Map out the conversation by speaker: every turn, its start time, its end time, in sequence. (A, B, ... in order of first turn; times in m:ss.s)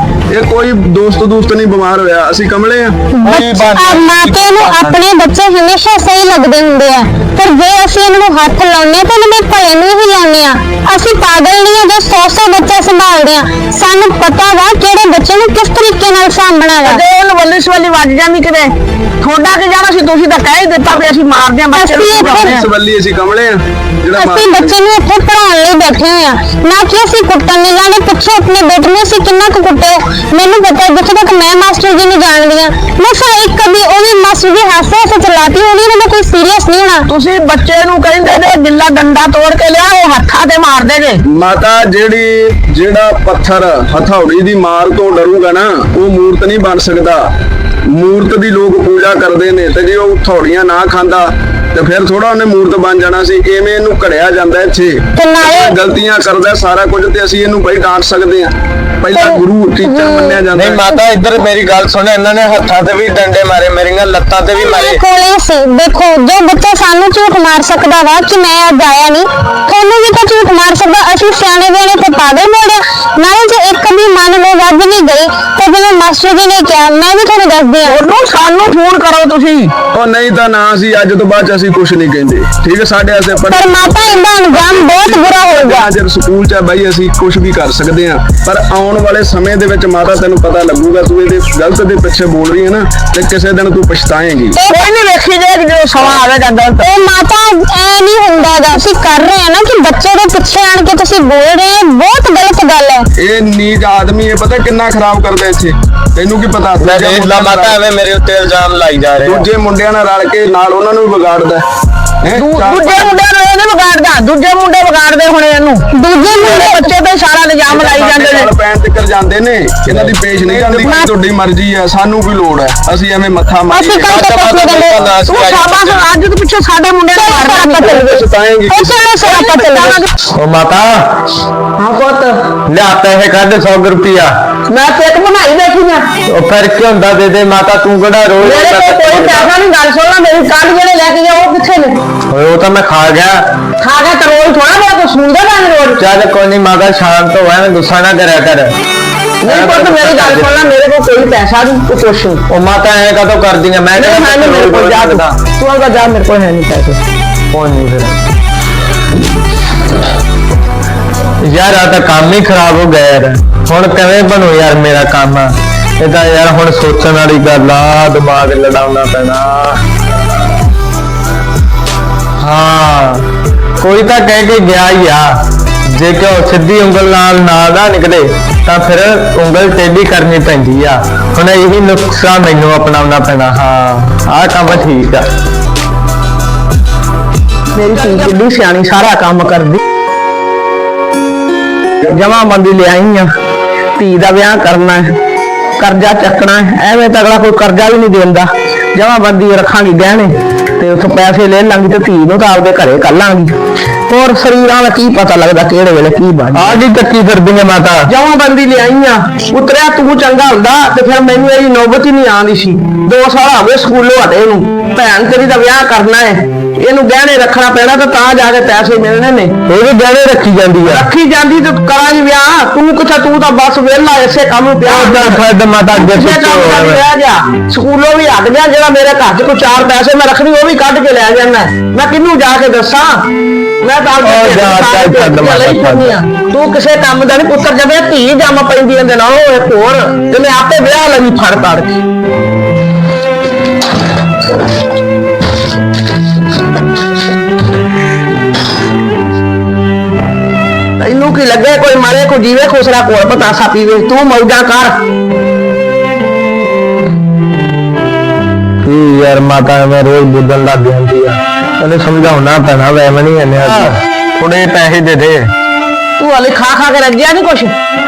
0:00.3-0:03.0 A
0:03.2-0:17.0 B
0:03.2-0:04.9 C
0:16.8-0:22.6 D
0:21.7-0:22.6 B
0:22.2-0:24.8 A
0:24.2-0:37.0 B
0:37.1-0:41.2 D
0:41.3-0:47.3 A
0:47.9-1:00.8 A
0:55.2-0:55.8 B
0:59.1-1:00.4 B
1:00.5-1:05.0 C
1:04.6-1:18.0 B
1:17.8-1:19.7 D
1:19.9-1:34.6 A
1:23.4-1:25.9 B
1:34.5-1:34.8 B
1:34.7-1:36.9 D
1:36.8-1:43.0 B
1:43.2-1:47.8 A
1:46.8-1:49.5 C
1:49.2-1:51.6 A
1:52.2-1:53.1 A
1:52.3-1:55.8 D
1:55.9-1:56.9 B
1:56.4-1:58.5 D
1:57.7-2:04.4 A
2:00.7-2:01.1 D
2:03.7-2:05.0 B
2:04.1-2:06.0 C
2:05.2-2:10.1 D
2:07.2-2:08.0 B
2:07.8-2:09.0 A
2:08.8-2:09.8 B
2:10.4-2:11.0 C
2:11.8-2:12.5 D
2:12.7-2:14.3 C
2:14.7-2:16.1 D
2:16.3-2:19.5 C
2:18.4-2:22.0 D
2:22.3-2:23.4 C
2:23.8-2:26.0 D
2:26.0-2:28.7 C
2:29.4-2:32.4 D
2:29.4-2:30.6 C
2:32.5-2:35.3 C
2:34.0-2:37.0 D
2:37.5-2:38.1 C
2:41.4-2:49.8 C
2:52.4-2:53.2 C
2:53.8-2:55.4 C
2:55.9-3:05.2 C
3:07.7-3:09.8 D
3:12.0-3:13.3 D
3:14.0-3:15.2 D
3:15.8-3:23.5 D
3:24.1-3:26.8 D
3:26.5-3:28.1 C
3:28.1-3:39.5 D
3:39.6-3:41.1 C
3:40.8-3:45.4 D
3:44.8-3:47.0 C
3:46.0-3:53.3 D
3:53.8-4:02.0 D
3:54.2-3:56.2 C
4:11.0-4:15.0 D
4:18.8-4:25.5 C
4:26.2-4:27.7 D